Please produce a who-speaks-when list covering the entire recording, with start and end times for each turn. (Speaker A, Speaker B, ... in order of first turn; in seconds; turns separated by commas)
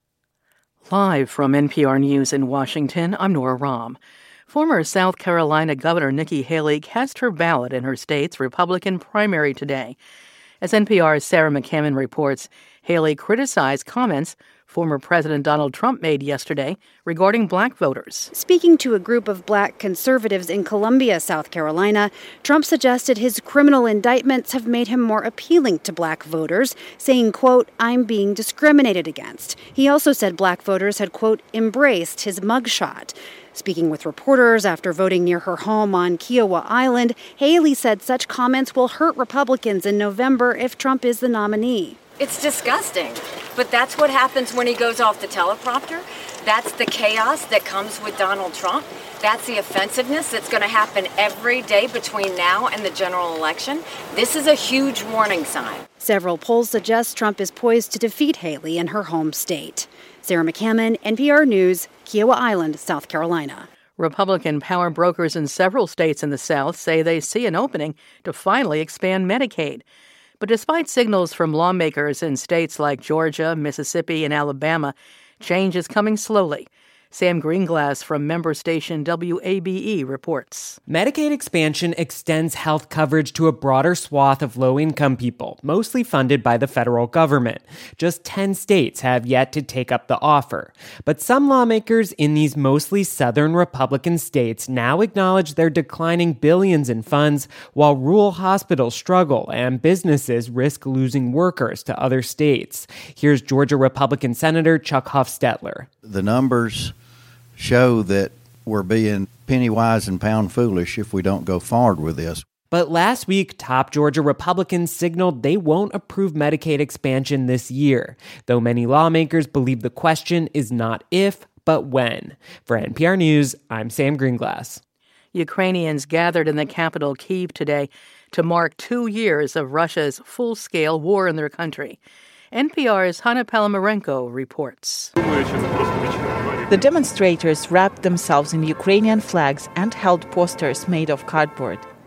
Speaker A: 0.9-4.0, Speaker A: 4.5-9.9, Speaker A: 10.6-18.3, Speaker B: 18.3-42.0, Speaker C: 42.2-55.9, Speaker B: 56.0-63.7, Speaker A: 64.0-69.8, Speaker A: 70.4-80.8, Speaker D: 80.9-105.9, Speaker E: 106.0-106.9, Speaker E: 107.6-112.4, Speaker D: 112.7-124.8, Speaker A: 125.3-132.0, Speaker A: 132.5-135.1, Speaker F: 136.7-141.8